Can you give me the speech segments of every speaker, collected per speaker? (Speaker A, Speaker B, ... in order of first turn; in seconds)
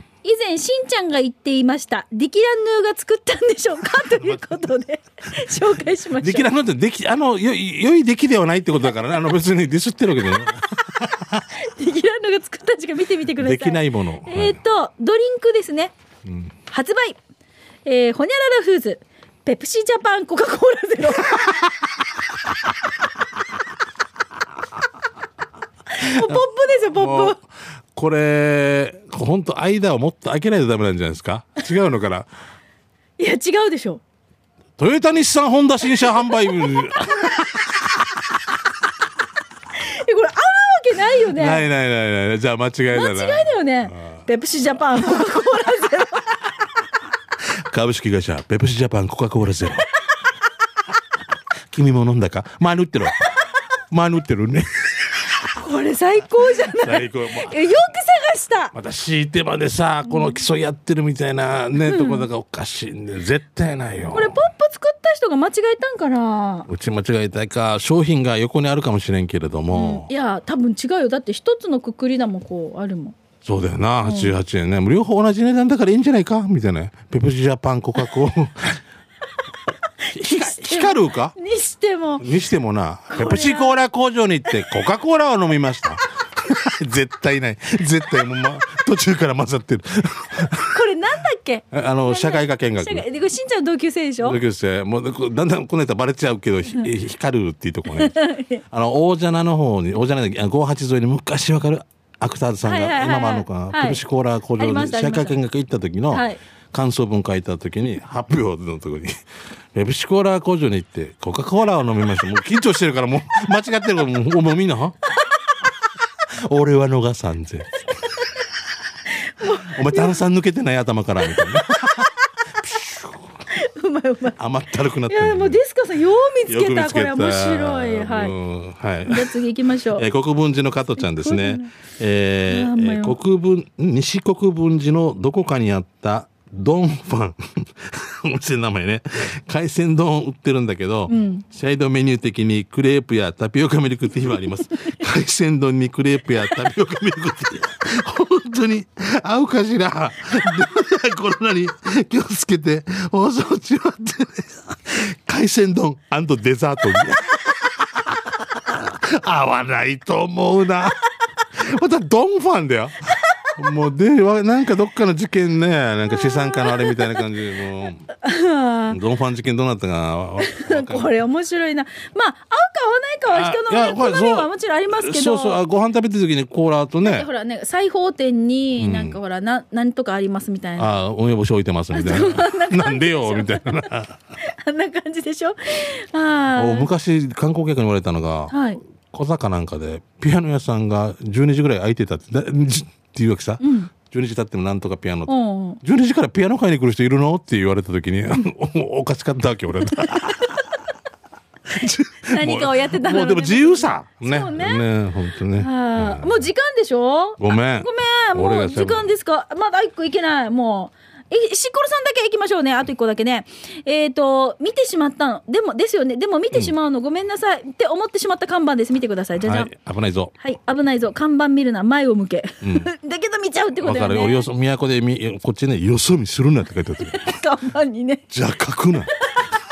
Speaker A: 0.2-6.5, 10.3-15.9, 16.7-17.2, 17.9-21.7, 25.9-27.4, 33.2-34.0, 39.8-41.7, 42.9-46.5, 55.5-58.7, 60.1-60.3, 61.8-62.3, 64.1-66.7, 69.7-73.2, 74.0-74.3, 80.0-82.3, 83.1-83.8, 90.6-94.4, 97.9-98.6, 102.7-104.0, 104.6-105.4, 106.1-106.4, 119.2-120.2, 121.2-122.3, 123.5-124.4, 125.1-128.4, 129.1-130.1, 131.0-131.7, 132.5-133.2, 141.1-141.4, 166.3-167.2, 168.2-169.0, 170.4-175.6, 177.0-180.9, 181.9-183.9, 184.4-186.9, 188.5-188.8, 193.6-193.9, 195.3-195.8, 200.2-200.6, 202.2-204.9, 205.5-219.7, 220.4-224.5, 227.0-228.3
Speaker B: 4.2-4.4, 6.2-11.4, 13.4-14.6, 16.2-16.5, 26.0-32.3, 34.8-38.4, 41.3-44.2, 47.4-49.9, 51.7-53.2, 53.9-55.4, 56.6-57.8, 58.7-64.4, 66.7-70.1, 73.5-78.8, 80.1-81.3, 82.2-90.8, 91.7-93.0, 94.2-98.2, 98.7-109.1, 109.8-115.0, 116.3-118.1, 119.4-123.3, 124.4-125.6, 126.5-129.4, 129.9-161.0, 161.5-168.1, 168.9-171.1, 173.3-177.3, 178.8-179.2, 180.8-184.2, 186.5-200.8, 201.7-206.4, 207.4-209.1, 219.4-220.3, 222.6-222.9, 223.8-227.4, 228.3-229.1